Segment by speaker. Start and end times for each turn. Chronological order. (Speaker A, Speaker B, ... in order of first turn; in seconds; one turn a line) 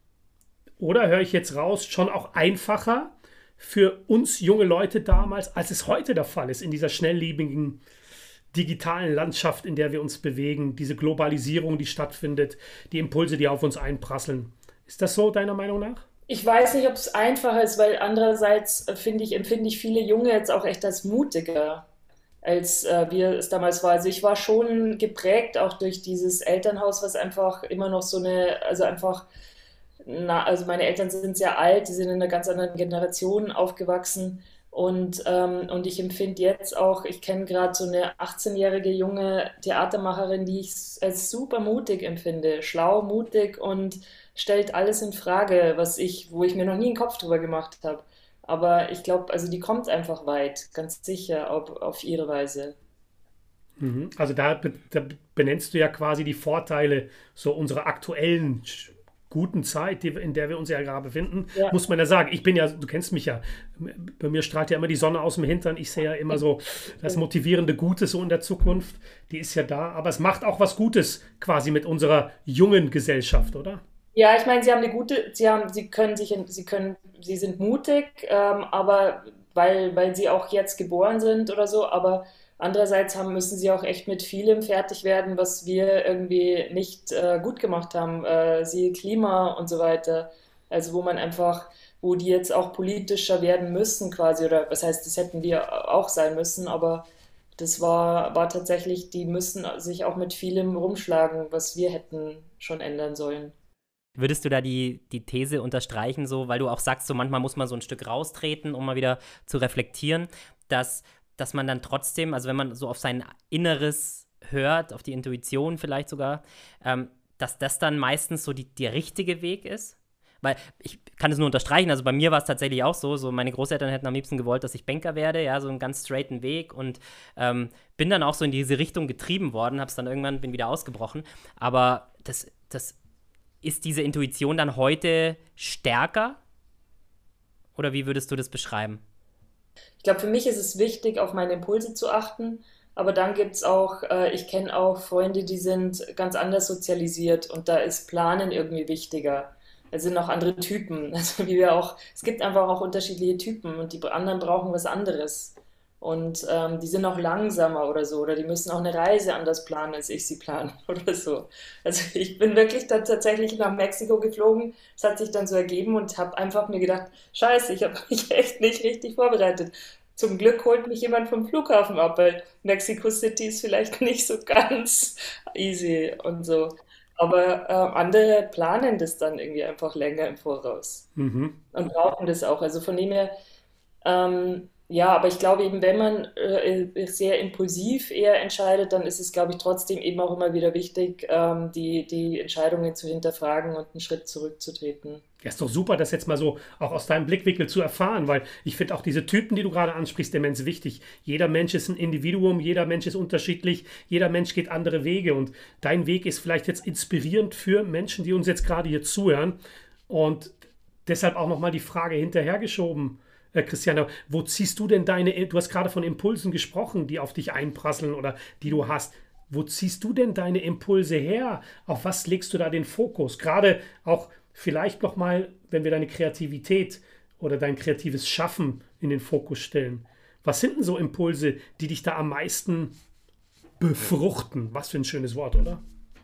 Speaker A: 0.8-7.8
Speaker A: 8.5-16.1
Speaker B: 16.3-21.9
Speaker B: 22.4-29.3
Speaker B: 30.1-52.8
Speaker A: 53.8-73.8
Speaker B: 74.1-97.1
Speaker B: 97.6-103.5
Speaker C: 104.2-133.0
Speaker C: 133.6-136.4
Speaker C: 137.8-139.0
Speaker B: 140.0-181.1
Speaker A: 181.2-181.6
Speaker B: 181.7-183.3
Speaker B: 184.0-195.2
Speaker A: 195.4-209.6
Speaker A: 210.1-210.6
Speaker A: 211.1-233.0
Speaker A: 233.8-235.8